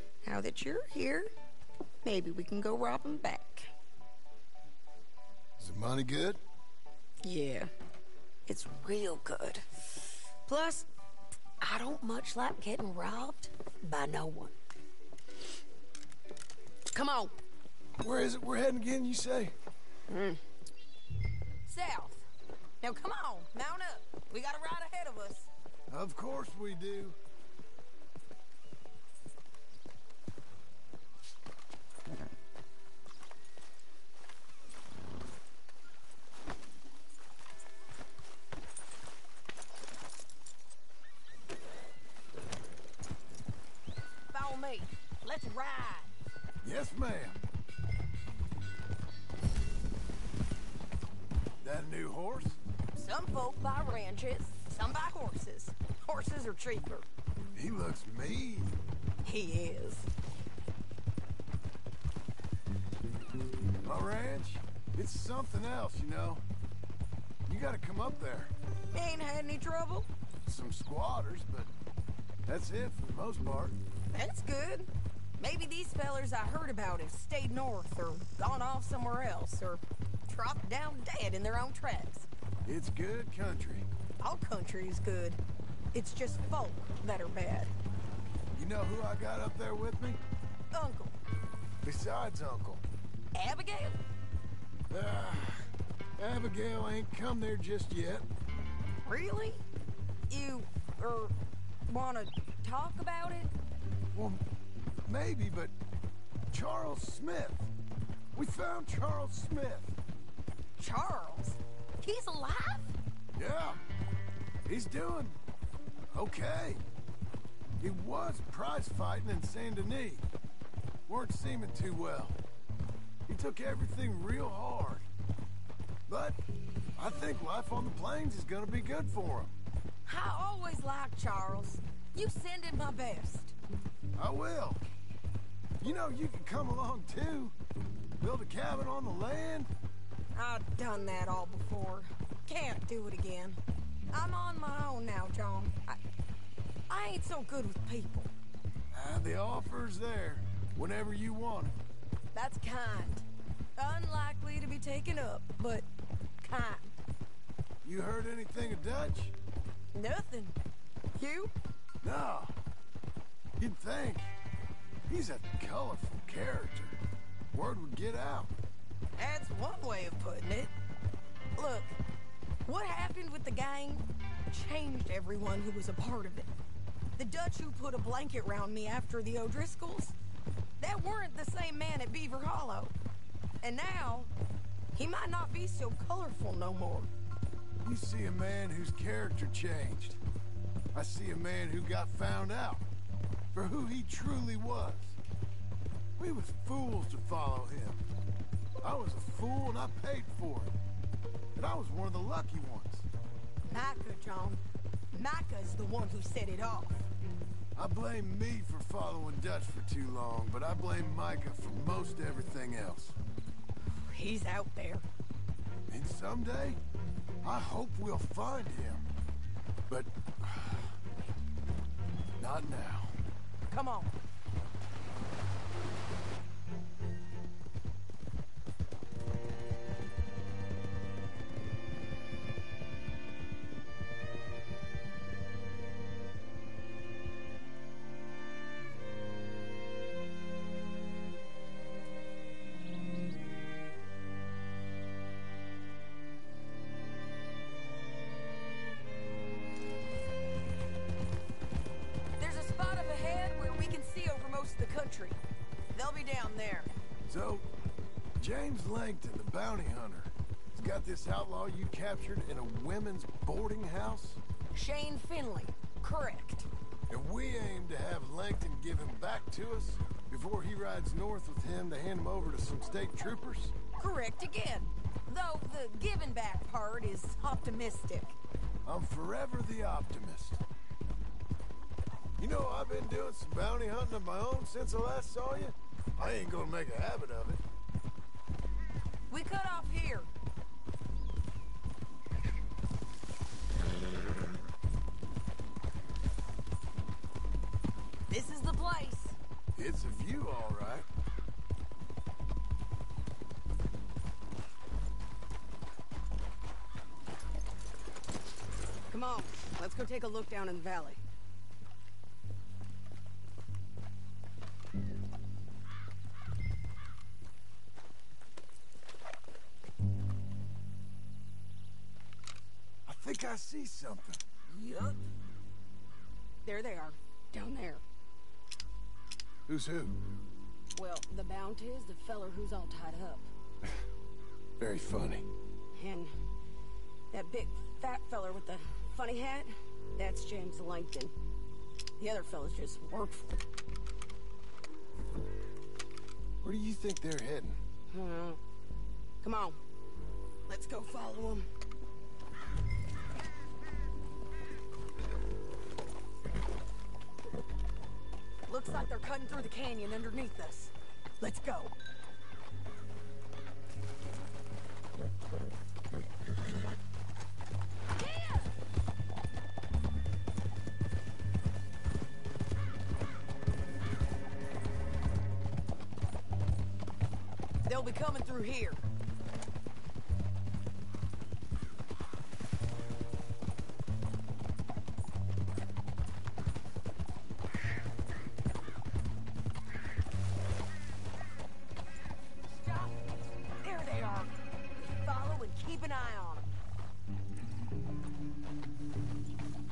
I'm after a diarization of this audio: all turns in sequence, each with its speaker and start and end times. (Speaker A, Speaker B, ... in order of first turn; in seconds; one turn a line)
Speaker A: 0.2-1.3
Speaker A: 2.0-3.7
Speaker B: 5.6-6.4
Speaker A: 7.2-7.7
Speaker A: 8.5-10.9
Speaker A: 11.6-14.5
Speaker A: 16.9-17.4
Speaker B: 18.0-19.5
Speaker A: 20.1-20.4
Speaker A: 21.7-22.3
Speaker A: 22.8-25.5
Speaker B: 25.9-27.2
Speaker A: 44.3-46.1
Speaker B: 46.6-47.4
Speaker B: 51.6-52.6
Speaker A: 53.0-57.1
Speaker B: 57.5-58.8
Speaker A: 59.2-60.1
Speaker B: 63.8-66.4
Speaker B: 67.5-68.5
Speaker A: 68.9-70.1
Speaker B: 70.5-71.7
Speaker B: 72.5-73.8
Speaker A: 74.1-82.3
Speaker B: 82.7-83.9
Speaker A: 84.2-85.4
Speaker A: 85.9-87.7
Speaker B: 88.5-90.2
Speaker A: 90.7-91.1
Speaker B: 91.8-92.8
Speaker A: 93.3-94.0
Speaker B: 94.9-98.3
Speaker A: 99.0-99.6
Speaker A: 100.3-101.3
Speaker A: 101.9-103.5
Speaker B: 104.1-104.4
Speaker B: 105.0-105.7
Speaker B: 106.5-107.7
Speaker B: 108.3-110.0
Speaker A: 110.8-113.0
Speaker B: 113.3-113.8
Speaker B: 114.7-115.4
Speaker B: 116.1-116.8
Speaker B: 117.8-120.3
Speaker B: 121.1-122.4
Speaker B: 123.3-125.1
Speaker B: 126.1-126.4
Speaker B: 127.0-129.5
Speaker A: 130.1-133.6
Speaker B: 134.2-134.8
Speaker B: 135.8-137.6
Speaker B: 138.2-139.7
Speaker A: 140.3-143.6
Speaker A: 144.1-146.0
Speaker A: 146.9-148.3
Speaker B: 148.9-151.8
Speaker A: 152.3-153.2
Speaker A: 153.8-155.9
Speaker A: 156.4-157.0
Speaker B: 157.8-159.3
Speaker A: 159.9-160.6
Speaker A: 161.2-161.5
Speaker B: 162.0-162.5
Speaker B: 163.6-164.3
Speaker B: 165.1-167.0
Speaker B: 167.5-168.5
Speaker A: 169.2-170.7
Speaker A: 171.6-172.0
Speaker A: 172.7-176.5
Speaker A: 177.2-180.2
Speaker A: 180.8-182.9
Speaker A: 183.6-184.3
Speaker A: 184.9-187.1
Speaker B: 187.8-190.2
Speaker B: 190.9-192.8
Speaker B: 193.5-195.2
Speaker B: 196.2-198.0
Speaker B: 198.8-200.8
Speaker B: 201.6-203.1
Speaker A: 203.7-207.1
Speaker B: 207.8-213.2
Speaker A: 213.9-215.1
Speaker B: 215.9-216.8
Speaker B: 217.4-219.1
Speaker B: 219.9-220.9
Speaker B: 222.4-223.2
Speaker A: 223.7-224.1
Speaker A: 252.4-255.4
Speaker A: 255.9-256.9
Speaker B: 257.3-257.6
Speaker B: 258.4-264.4
Speaker A: 264.7-266.7
Speaker B: 267.1-273.8
Speaker A: 274.0-278.4
Speaker B: 278.9-280.6
Speaker B: 282.4-287.6
Speaker A: 289.3-290.3
Speaker A: 298.3-299.4
Speaker B: 299.8-301.1
Speaker A: 309.1-311.2
Speaker B: 323.1-324.4
Speaker A: 324.7-325.2
Speaker A: 326.6-328.0
Speaker B: 329.7-330.2
Speaker A: 331.0-333.5
Speaker B: 334.8-335.5
Speaker A: 335.9-336.3
Speaker A: 337.3-341.3
Speaker A: 342.2-343.6
Speaker B: 346.6-347.8
Speaker A: 348.1-348.6
Speaker A: 349.4-349.8
Speaker A: 350.7-351.7
Speaker A: 358.7-361.9
Speaker A: 368.2-368.7
Speaker A: 377.8-379.0
Speaker A: 392.7-393.2
Speaker A: 393.8-396.7